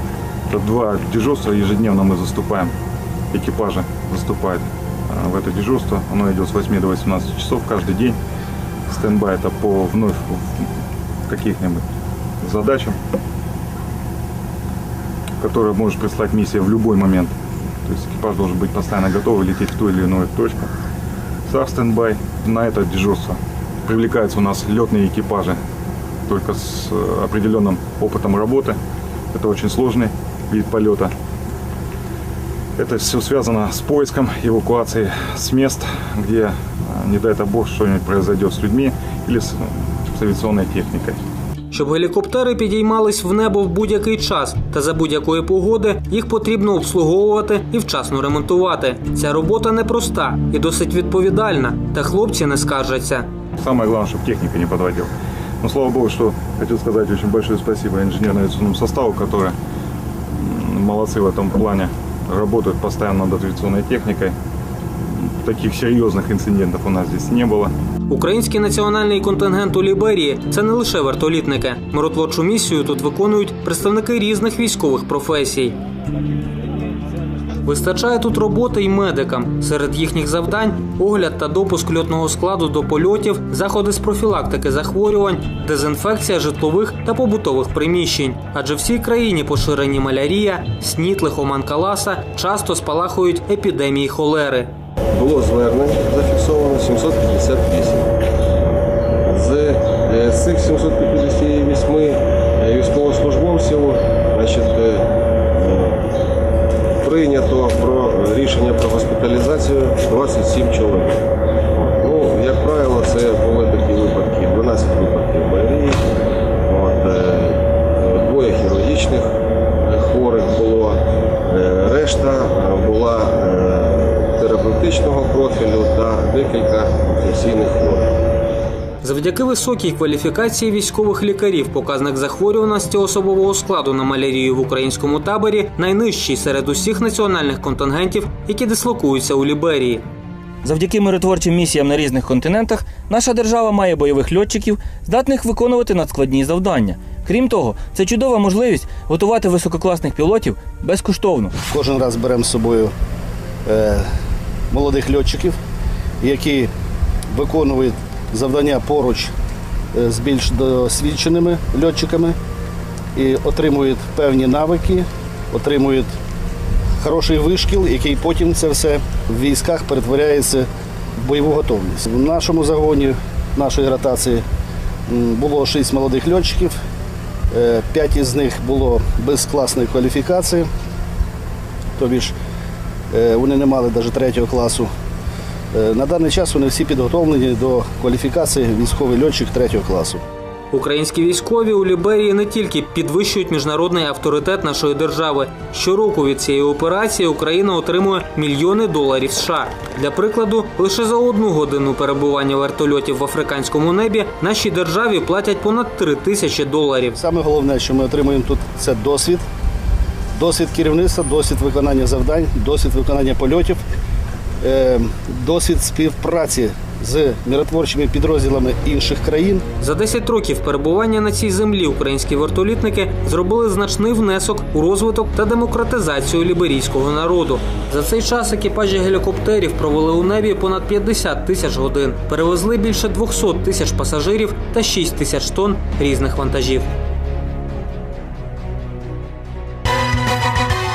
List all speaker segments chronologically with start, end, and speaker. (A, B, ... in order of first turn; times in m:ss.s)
0:00.5-0:02.7 A
0:03.3-0:08.2 A
0:08.9-0:10.7 A
0:11.3-0:11.8 A
0:12.4-0:13.0 A
0:15.4-0:20.7 A
0:21.5-0:25.6 A
0:26.3-0:28.8 A
0:29.3-0:31.1 A
0:32.8-0:41.2 A
0:41.7-0:53.3 B
0:53.6-0:59.5 A
1:00.3-1:04.3 A
1:05.0-1:07.7 A
1:08.1-1:15.8 B
1:17.6-1:34.7 B
1:35.1-1:38.1 C
1:39.2-1:46.1 C
1:47.0-1:56.0 C
1:56.6-2:08.1 C
2:09.0-2:20.0 B
2:20.6-2:31.5 D
2:31.7-2:32.9 E
2:33.6-2:34.1 E
2:34.7-2:35.6 E
2:36.2-2:36.7 E
2:37.3-2:39.3 E
2:39.9-2:42.4 E
2:43.1-2:46.1 E
2:47.0-2:54.4 E
2:55.1-2:56.8 E
2:57.5-3:00.7 E
3:02.0-3:02.3 E
3:03.1-3:04.9 E
3:05.7-3:10.2 E
3:10.7-3:27.2 B
3:27.2-3:29.4 E
3:30.4-3:33.8 E
3:34.6-3:39.6 E
3:39.8-3:56.9 B